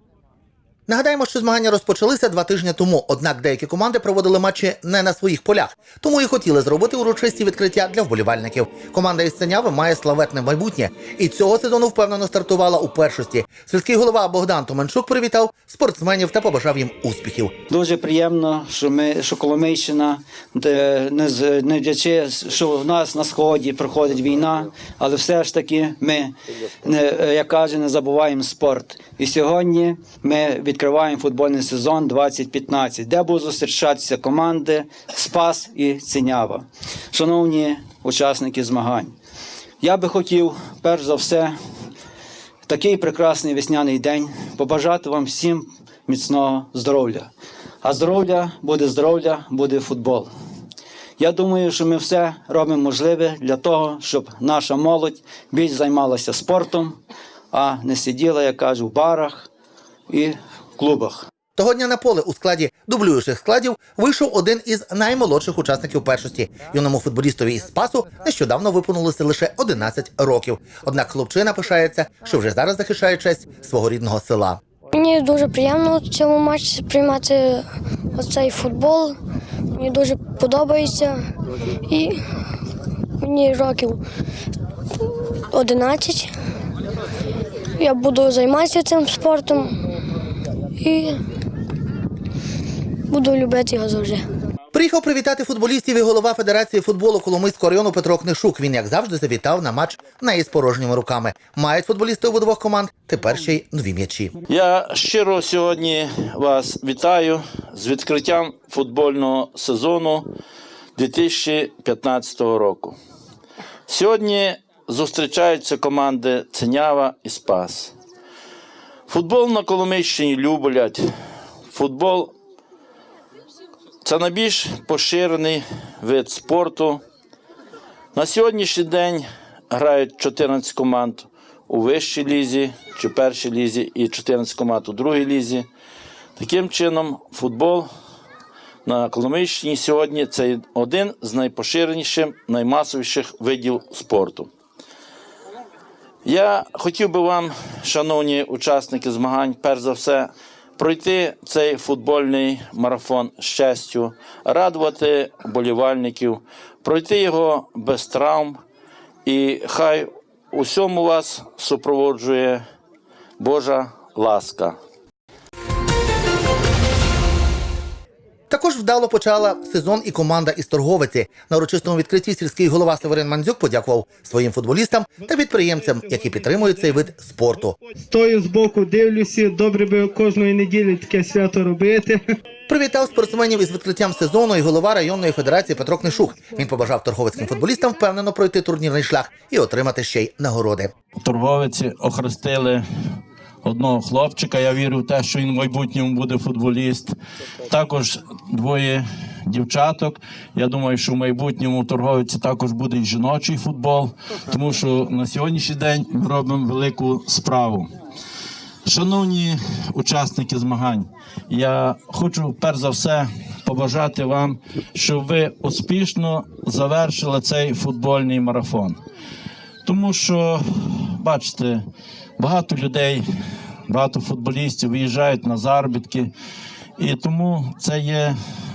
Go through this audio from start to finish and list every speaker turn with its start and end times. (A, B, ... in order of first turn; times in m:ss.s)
0:00.9-0:17.5 A
0:17.7-0:39.2 B
0:39.8-0:41.6 B
0:42.7-0:47.3 B
0:47.8-0:50.3 B
0:51.2-0:57.0 B
0:57.5-0:59.5 B
1:00.1-1:01.3 B
1:01.6-1:14.6 A
1:14.9-1:19.2 C
1:19.8-1:21.2 C
1:21.9-1:22.2 C
1:23.2-1:24.0 C
1:25.5-1:26.3 C
1:27.8-1:29.8 C
1:30.8-1:31.2 C
1:33.1-1:34.2 C
1:34.7-1:44.3 A
1:44.5-1:50.3 D
1:51.0-1:53.0 D
1:53.9-1:57.9 D
1:59.1-2:01.1 D
2:01.7-2:02.3 D
2:04.0-2:07.0 D
2:08.2-2:15.7 D
2:16.4-2:17.9 D
2:18.8-2:24.5 D
2:26.2-2:38.6 D
2:39.2-2:42.6 D
2:43.4-2:44.8 D
2:48.5-2:57.8 A
2:58.0-3:02.2 E
3:02.7-3:10.9 A
3:11.2-3:12.8 D
3:13.6-3:17.1 D
3:17.7-3:27.9 D
3:28.8-3:39.0 D
3:39.8-3:41.8 D
3:42.4-3:43.2 D
3:43.9-3:46.3 D
3:47.0-3:48.4 D